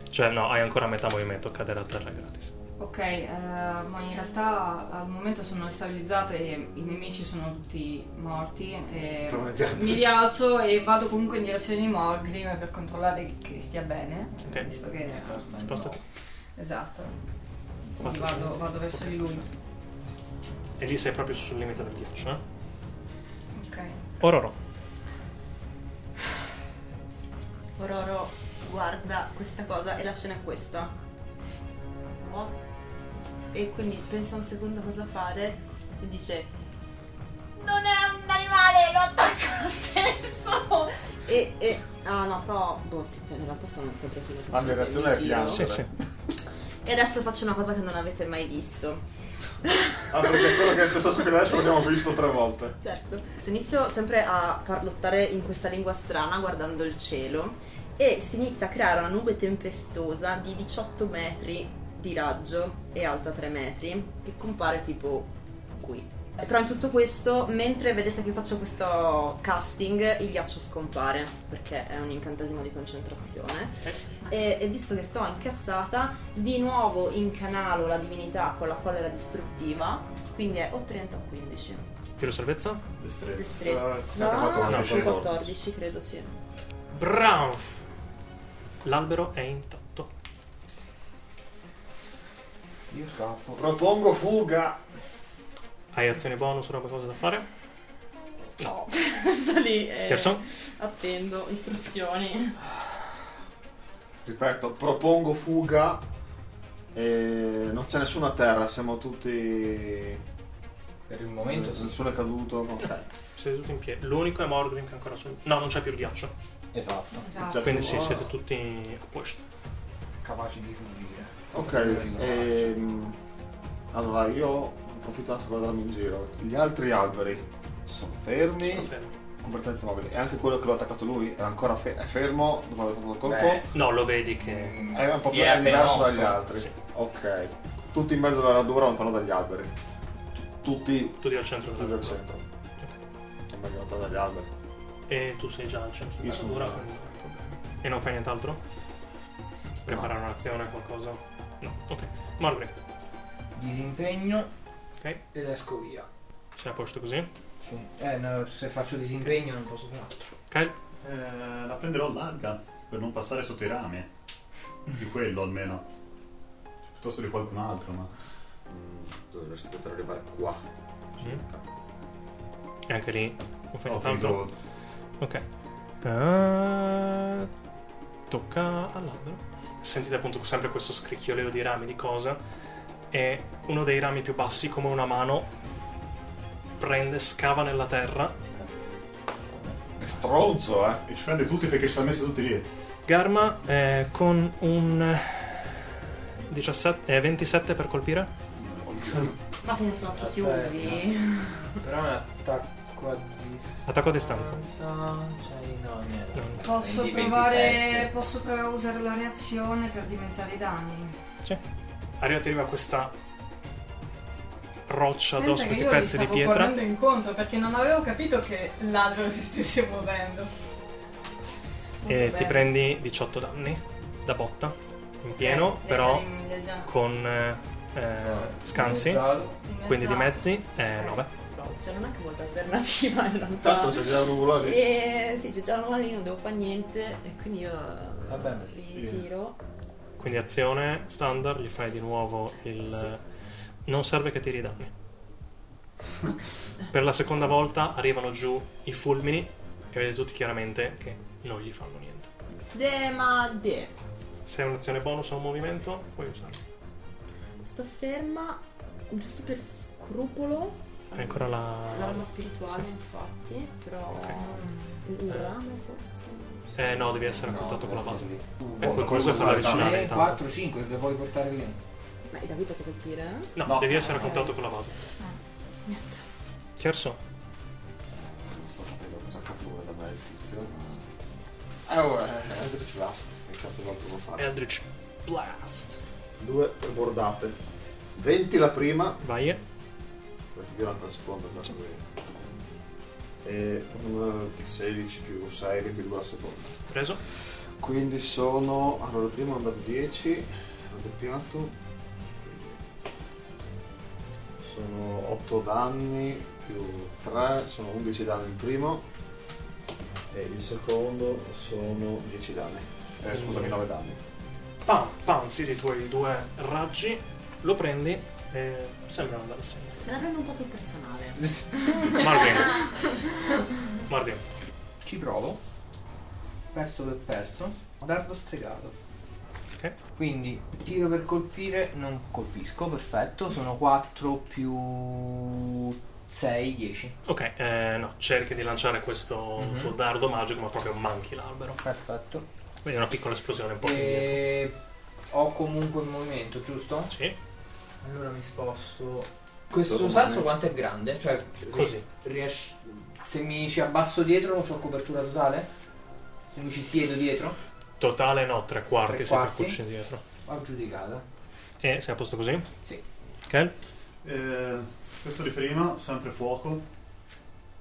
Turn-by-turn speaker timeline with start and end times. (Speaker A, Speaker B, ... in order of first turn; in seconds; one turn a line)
Speaker A: 0.1-2.5
Speaker B: 2.8-15.6
Speaker C: 9.3-10.1
Speaker D: 14.8-16.0
Speaker A: 15.6-16.0
Speaker B: 16.6-17.1
Speaker B: 18.0-19.5
Speaker A: 18.0-19.0
Speaker A: 20.8-22.4
Speaker B: 23.5-24.0
Speaker A: 24.2-24.6
Speaker E: 27.8-30.9
Speaker E: 32.1-32.5
Speaker E: 33.5-36.5
Speaker E: 37.6-45.6
Speaker C: 44.5-45.9
Speaker A: 45.5-45.9
Speaker E: 46.9-49.0
Speaker E: 49.7-50.4
Speaker C: 50.1-52.8
Speaker E: 52.8-81.8
Speaker A: 82.1-82.8
Speaker F: 83.0-85.5
Speaker E: 83.3-86.3
Speaker A: 84.6-85.2
Speaker A: 86.9-87.8
Speaker A: 88.8-90.1
Speaker D: 92.9-93.6
Speaker C: 93.6-94.8
Speaker A: 95.9-97.5
Speaker A: 98.6-98.8
Speaker E: 98.8-102.6
Speaker A: 100.1-100.4
Speaker C: 104.2-106.0
Speaker C: 106.9-110.2
Speaker D: 111.1-112.0
Speaker C: 111.5-113.1
Speaker A: 113.4-116.3
Speaker D: 116.7-117.3
Speaker B: 117.2-117.7
Speaker C: 117.3-118.3
Speaker A: 117.5-119.4
Speaker D: 120.2-122.7
Speaker C: 121.5-123.1
Speaker C: 123.9-128.9
Speaker A: 128.6-129.1
Speaker C: 129.4-133.7
Speaker D: 133.2-133.7
Speaker A: 133.7-134.8
Speaker D: 134.4-136.4
Speaker C: 134.9-139.7
Speaker C: 140.4-142.4
Speaker A: 141.2-142.2
Speaker C: 143.5-144.5
Speaker A: 145.1-148.6
Speaker F: 146.2-146.8
Speaker A: 149.8-152.7
Speaker D: 153.6-154.5
Speaker D: 155.3-156.1
Speaker A: 156.6-157.3
Speaker D: 157.6-160.3
Speaker A: 160.5-160.8
Speaker F: 161.0-164.1
Speaker F: 165.0-165.8
Speaker F: 166.8-168.1
Speaker C: 168.7-170.6
Speaker C: 171.2-171.6
Speaker A: 172.9-174.4
Speaker F: 173.9-174.5
Speaker A: 176.0-177.5
Speaker A: 178.3-182.4
Speaker A: 183.1-185.5
Speaker A: 186.8-188.4
Speaker C: 190.0-191.0
Speaker F: 191.1-192.7
Speaker A: 193.1-195.8
Speaker A: 196.5-198.3
Speaker F: 198.6-199.3
Speaker E: 199.6-201.7
Speaker D: 200.1-201.1
Speaker D: 201.8-208.1
Speaker A: 203.9-204.6
Speaker A: 206.3-206.6
Speaker B: 206.6-211.2
Speaker A: 212.2-213.1
Speaker A: 214.9-216.8
Speaker B: 215.4-220.5
Speaker B: 222.0-222.7
Speaker A: 222.1-226.3
Speaker B: 225.3-226.9
Speaker A: 226.8-229.3
Speaker D: 228.2-229.6
Speaker B: 229.6-230.5
Speaker A: 229.8-231.3
Speaker E: 231.5-239.6
Speaker C: 233.6-234.9
Speaker D: 238.3-238.7
Speaker F: 238.9-239.2
Speaker A: 240.2-243.2
Speaker A: 243.9-244.9
Speaker A: 246.9-252.3
Speaker E: 252.7-253.9
Speaker A: 254.5-256.6
Speaker E: 257.6-267.2
Speaker A: 261.1-262.3
Speaker A: 264.1-264.4
Speaker A: 265.3-265.6
Speaker A: 266.8-270.4
Speaker D: 267.3-271.8
Speaker F: 268.6-270.1
Speaker E: 272.3-274.5
Speaker A: 273.6-275.1
Speaker F: 273.6-274.4
Speaker E: 275.9-276.2
Speaker A: 276.8-277.2
Speaker C: 278.1-281.1
Speaker C: 281.9-284.5
Speaker A: 284.4-286.0
Speaker C: 286.4-287.6
Speaker C: 288.2-289.2
Speaker A: 289.2-289.6
Speaker C: 290.5-292.4
Speaker C: 293.4-296.8
Speaker A: 296.9-297.2
Speaker C: 297.8-301.7
Speaker C: 302.4-302.8
Speaker C: 304.6-309.0
Speaker C: 310.3-314.2
Speaker A: 313.3-313.8
Speaker A: 314.9-320.1
Speaker E: 320.1-322.1
Speaker D: 321.4-322.1
Speaker A: 322.1-322.8
Speaker A: 324.1-324.4
Speaker D: 325.0-325.6
Speaker D: 326.7-328.9
Speaker D: 330.1-337.2
Speaker A: 337.2-341.8
Speaker D: 339.6-339.9
Speaker D: 341.8-342.4
Speaker A: 342.9-344.4
Speaker D: 343.8-344.8
Speaker D: 345.3-347.1
Speaker A: 347.1-347.4
Speaker D: 348.0-355.7
Speaker C: 349.7-350.6
Speaker A: 351.7-352.0
Speaker D: 356.5-357.6
Speaker A: 358.0-360.2
Speaker D: 359.1-359.8
Speaker D: 360.4-361.2
Speaker A: 361.8-362.7
Speaker F: 364.2-366.9